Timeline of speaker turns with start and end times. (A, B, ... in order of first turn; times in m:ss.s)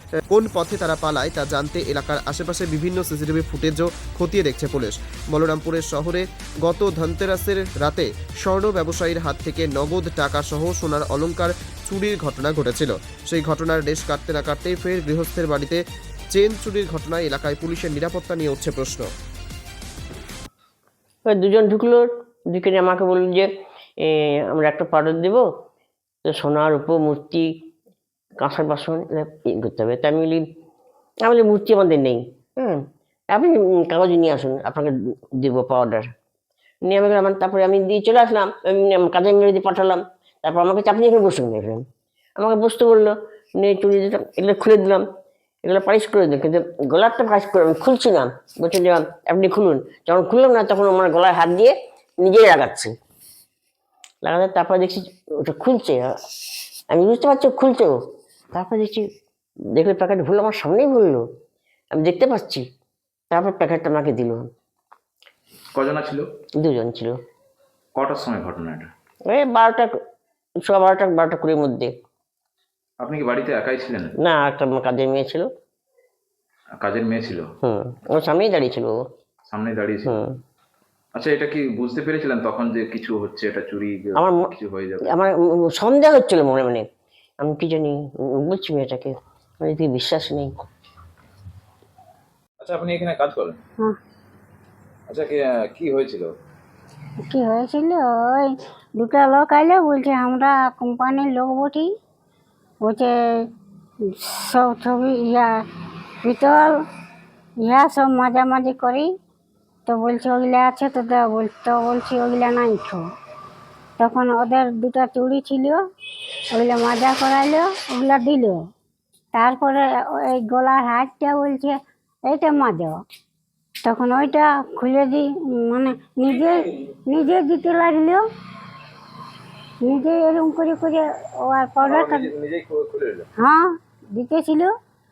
0:00.3-0:19.1 A
0:21.2-0:25.5 B
0:26.2-0:27.5 B
0:28.4-0:30.5 B
0:31.2-0:36.1 B
0:36.8-0:45.0 B
0:45.6-0:52.9 B
0:54.2-0:56.2 B
0:56.9-0:58.0 B
0:58.5-0:59.1 B
0:59.7-1:01.2 B
1:01.9-1:02.6 B
1:03.3-1:04.5 B
1:05.7-1:06.2 C
1:06.6-1:07.2 B
1:07.9-1:08.9 C
1:09.2-1:10.0 B
1:10.6-1:12.0 B
1:13.0-1:14.1 C
1:14.2-1:15.5 B
1:16.8-1:17.4 C
1:17.6-1:19.0 B
1:19.5-1:20.1 C
1:20.0-1:20.3 B
1:21.1-1:25.1 C
1:24.2-1:24.5 B
1:25.0-1:26.9 B
1:27.4-1:30.5 B
1:32.6-1:33.6 C
1:35.1-1:36.3 C
1:37.2-1:41.9 D
1:42.8-1:43.1 D
1:44.0-1:45.5 D
1:46.2-1:46.8 D
1:47.6-1:49.1 D
1:49.8-1:53.0 D
1:54.0-1:55.8 D
1:56.5-1:58.6 D
1:59.3-2:03.0 D
2:03.8-2:08.2 D
2:09.8-2:12.3 D
2:11.8-2:13.3 C
2:13.4-2:14.7 D